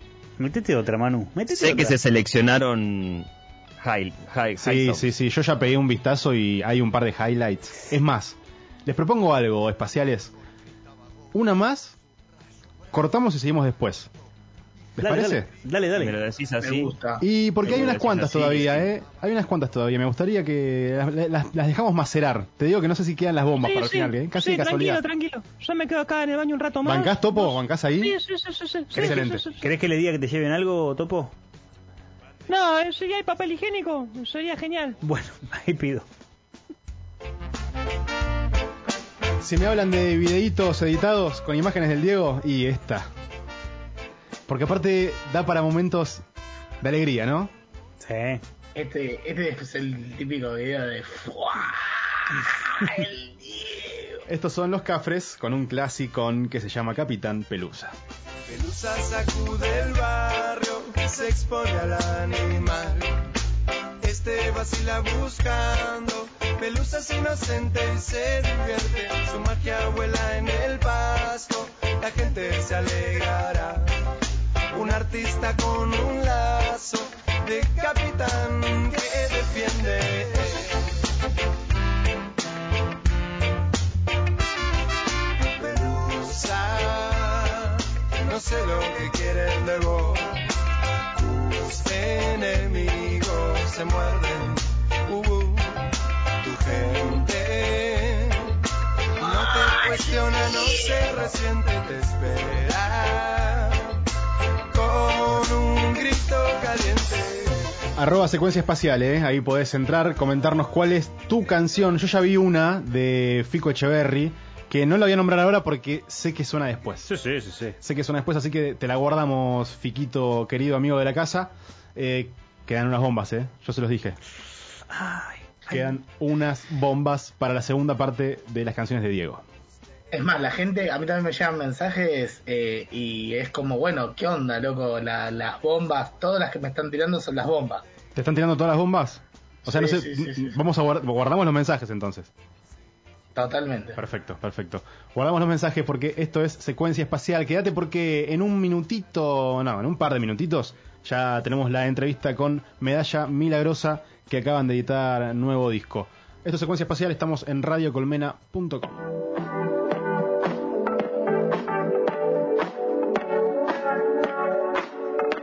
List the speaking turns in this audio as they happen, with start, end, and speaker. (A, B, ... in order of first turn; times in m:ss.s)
0:00.4-0:02.0 A
0:01.5-0:03.3 B
0:03.8-0:05.0 B
0:04.6-0:10.3 C
0:11.3-0:12.0 C
0:12.9-0:14.1 C
0:15.0-0:15.5 C
0:15.0-0:16.2 A
0:16.0-0:16.9 B
0:16.6-0:17.2 D
0:17.2-0:25.0 C
0:17.6-0:18.9 B
0:23.6-0:29.7 E
0:26.8-0:28.2 C
0:28.9-0:29.4 C
0:28.9-0:31.3 A
0:32.5-0:35.0 E
0:35.0-0:36.1 A
0:39.4-0:43.1 C
0:44.5-0:46.2 C
0:46.8-0:47.5 C
0:48.0-0:48.4 A
0:48.8-0:54.2 D
0:54.3-0:57.9 C
0:58.5-1:03.1 F
1:04.0-1:13.9 F
1:14.7-1:20.7 F
1:25.6-1:30.4 F
1:31.2-1:35.8 F
1:36.4-1:38.5 F
1:39.2-1:43.9 F
1:44.7-1:47.6 F
1:48.0-1:57.1 C
1:57.1-1:57.8 A
1:57.8-2:04.2 C
2:04.9-2:05.4 A
2:05.7-2:09.4 C
2:10.1-2:17.8 D
2:18.2-2:22.3 C
2:19.7-2:20.6 D
2:23.4-2:24.0 D
2:24.0-2:39.0 C